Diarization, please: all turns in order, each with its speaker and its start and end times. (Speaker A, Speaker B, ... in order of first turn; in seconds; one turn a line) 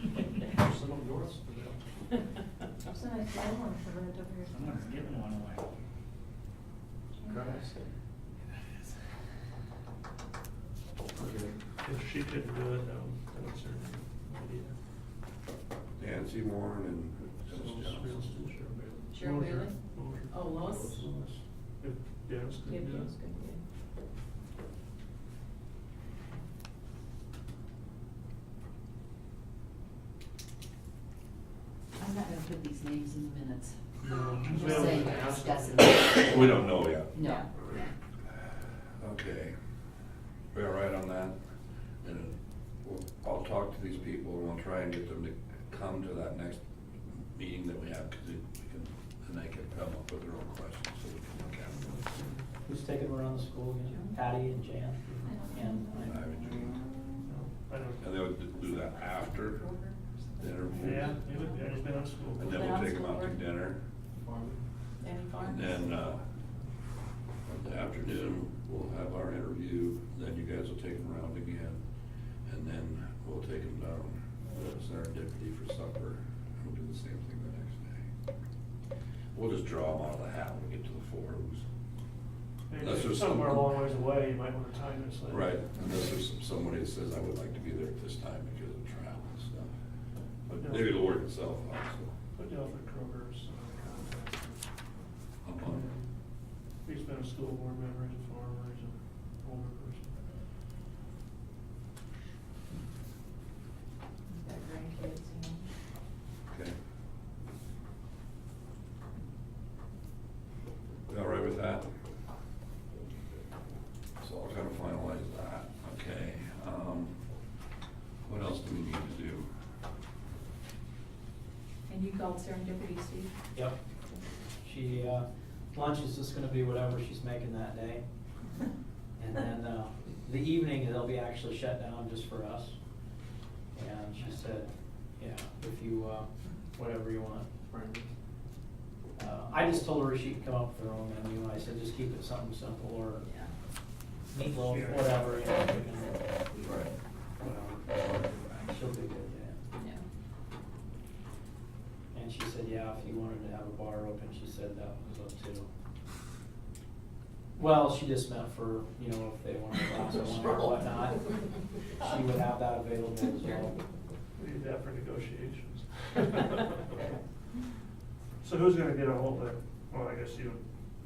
Speaker A: 0.5-1.8
Speaker B: 2.9-4.7
Speaker C: 4.5-5.6
Speaker B: 7.2-7.5
Speaker A: 7.3-7.8
Speaker D: 11.8-14.7
Speaker E: 16.0-18.2
Speaker D: 17.5-21.1
Speaker A: 18.5-19.3
Speaker B: 19.1-21.0
Speaker A: 20.4-21.4
Speaker D: 21.8-23.1
Speaker B: 22.6-23.6
Speaker F: 31.9-33.8
Speaker D: 34.0-36.4
Speaker F: 34.5-36.3
Speaker C: 34.5-35.3
Speaker E: 36.2-37.2
Speaker F: 37.1-37.9
Speaker D: 37.5-37.8
Speaker E: 39.0-39.5
Speaker E: 40.5-41.3
Speaker E: 42.0-46.6
Speaker E: 47.2-51.9
Speaker D: 51.4-52.5
Speaker G: 52.6-56.2
Speaker B: 53.9-54.1
Speaker B: 55.2-57.2
Speaker E: 56.0-56.9
Speaker D: 57.2-58.3
Speaker E: 58.0-59.7
Speaker B: 58.6-61.7
Speaker E: 60.4-61.2
Speaker D: 60.7-62.7
Speaker E: 62.4-63.8
Speaker B: 62.5-63.4
Speaker A: 64.1-64.6
Speaker B: 65.0-65.9
Speaker E: 65.4-66.2
Speaker E: 67.4-71.8
Speaker E: 72.4-78.0
Speaker E: 79.3-81.6
Speaker D: 82.7-86.1
Speaker E: 82.8-83.7
Speaker E: 85.3-89.7
Speaker E: 90.5-92.1
Speaker D: 90.6-91.0
Speaker D: 92.3-94.7
Speaker E: 95.4-95.9
Speaker D: 95.6-96.1
Speaker D: 96.8-100.2
Speaker B: 104.3-105.7
Speaker E: 106.5-106.8
Speaker E: 111.1-111.9
Speaker E: 114.2-117.2
Speaker E: 118.2-119.5
Speaker B: 121.9-123.3
Speaker G: 124.6-128.0
Speaker G: 129.2-132.8
Speaker G: 133.7-137.5
Speaker A: 137.7-138.1
Speaker G: 139.2-143.3
Speaker B: 143.2-143.5
Speaker G: 144.3-146.4
Speaker D: 144.7-145.5
Speaker B: 146.5-146.8
Speaker E: 146.6-146.9
Speaker G: 147.4-149.6
Speaker B: 149.8-150.1
Speaker G: 152.1-155.7
Speaker G: 157.6-161.4
Speaker G: 161.9-163.8
Speaker D: 164.4-167.1
Speaker D: 168.4-170.6